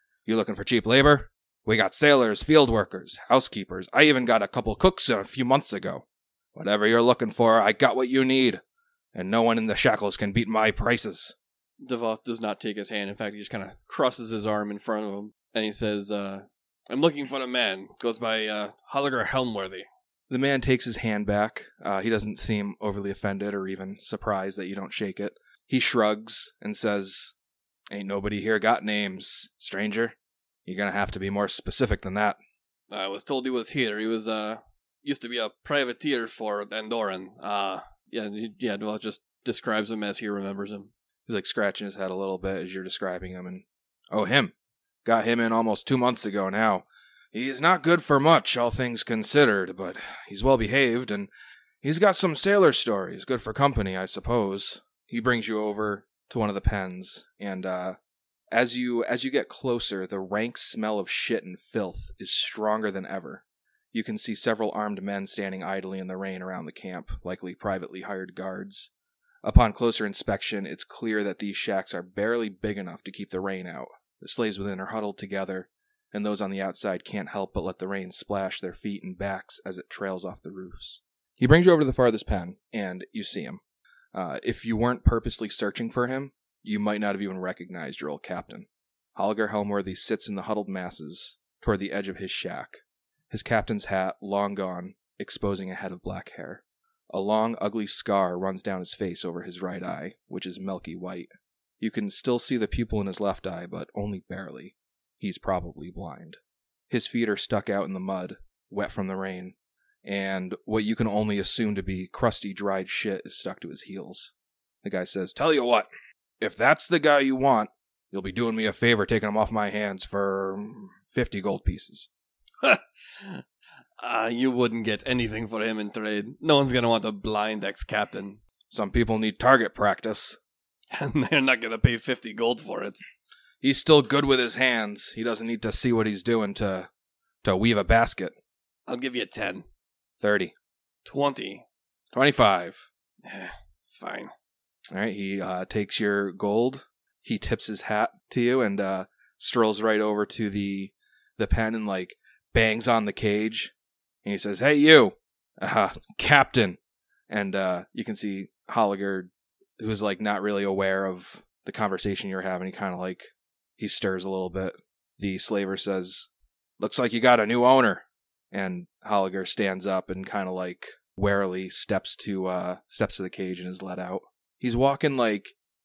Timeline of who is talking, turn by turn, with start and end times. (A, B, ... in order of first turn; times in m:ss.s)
0:00.3-0:08.6 A
0:09.1-0:11.4 A
0:11.8-0:19.9 B
0:20.3-0:27.3 A
0:27.9-0:32.4 A
0:32.9-0:40.9 B
0:41.3-0:44.5 A
0:45.0-0:51.3 A
0:51.8-0:58.0 A
0:58.5-1:08.9 A
1:09.4-1:23.6 A
1:24.1-1:41.3 A
1:41.8-1:46.4 A
1:46.9-1:54.3 A
1:54.8-1:55.9 A
1:56.4-2:02.1 A
2:02.6-2:03.4 B
2:04.0-2:08.4 B
2:08.7-2:10.4 A
2:10.9-2:13.0 B
2:13.6-2:16.9 A
2:17.4-2:18.4 A
2:18.9-2:19.7 B
2:20.2-2:20.5 A
2:21.0-2:21.6 B
2:22.1-2:22.8 A
2:23.2-2:24.3 B
2:24.9-2:33.7 A
2:34.2-2:36.8 A
2:37.3-2:46.3 A
2:46.8-2:55.6 A